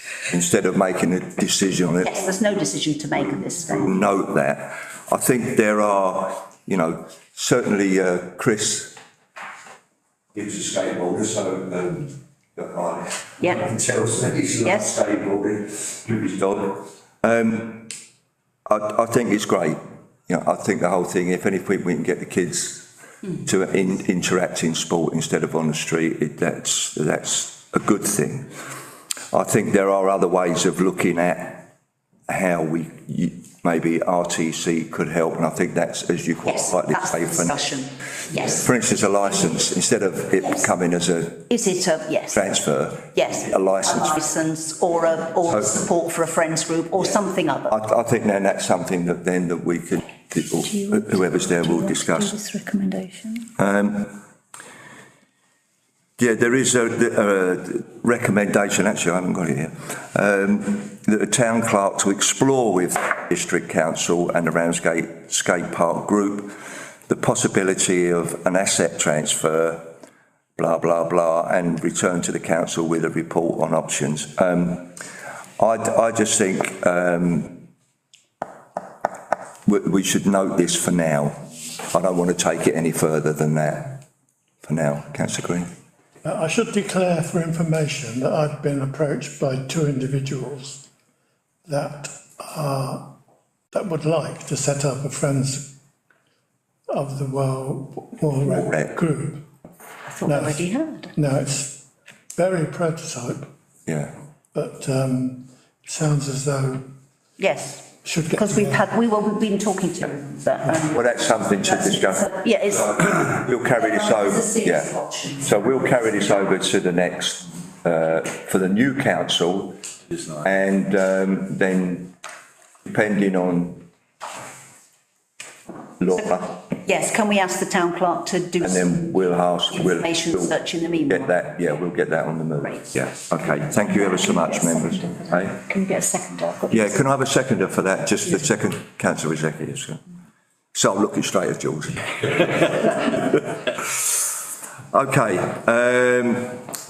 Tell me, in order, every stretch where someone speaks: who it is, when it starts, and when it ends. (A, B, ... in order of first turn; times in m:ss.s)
0:00.3-0:02.3 A
0:02.0-0:04.0 B
0:03.2-0:09.0 A
0:10.3-0:17.9 A
0:14.6-0:14.9 B
0:18.7-0:28.5 A
0:29.3-0:31.7 A
0:32.3-0:37.6 A
0:36.4-0:38.6 B
0:38.3-0:41.5 A
0:41.5-0:42.5 B
0:42.3-0:44.2 A
0:43.1-0:47.8 B
0:45.4-0:45.9 A
0:47.0-0:52.4 A
0:50.6-0:53.5 C
0:53.6-0:54.2 A
0:56.2-1:06.6 A
1:07.1-1:09.9 A
1:10.6-1:15.0 A
1:15.6-1:17.7 A
1:19.7-1:24.0 A
1:24.6-1:25.7 A
1:26.2-1:30.8 D
1:31.7-1:33.1 D
1:33.7-1:35.7 D
1:36.9-1:39.4 D
1:38.5-1:39.0 A
1:40.1-1:41.1 B
1:40.2-1:41.8 D
1:42.4-1:43.5 D
1:43.9-1:44.2 A
1:44.5-1:46.9 D
1:47.4-1:55.5 B
1:48.0-1:48.9 D
1:50.9-2:02.1 A
2:02.8-2:03.9 A
2:06.0-2:06.6 A
2:06.8-2:09.2 B
2:08.6-2:15.7 A
2:09.7-2:11.4 B
2:13.8-2:17.1 C
2:16.7-2:20.0 A
2:20.7-2:23.4 A
2:24.9-2:26.7 A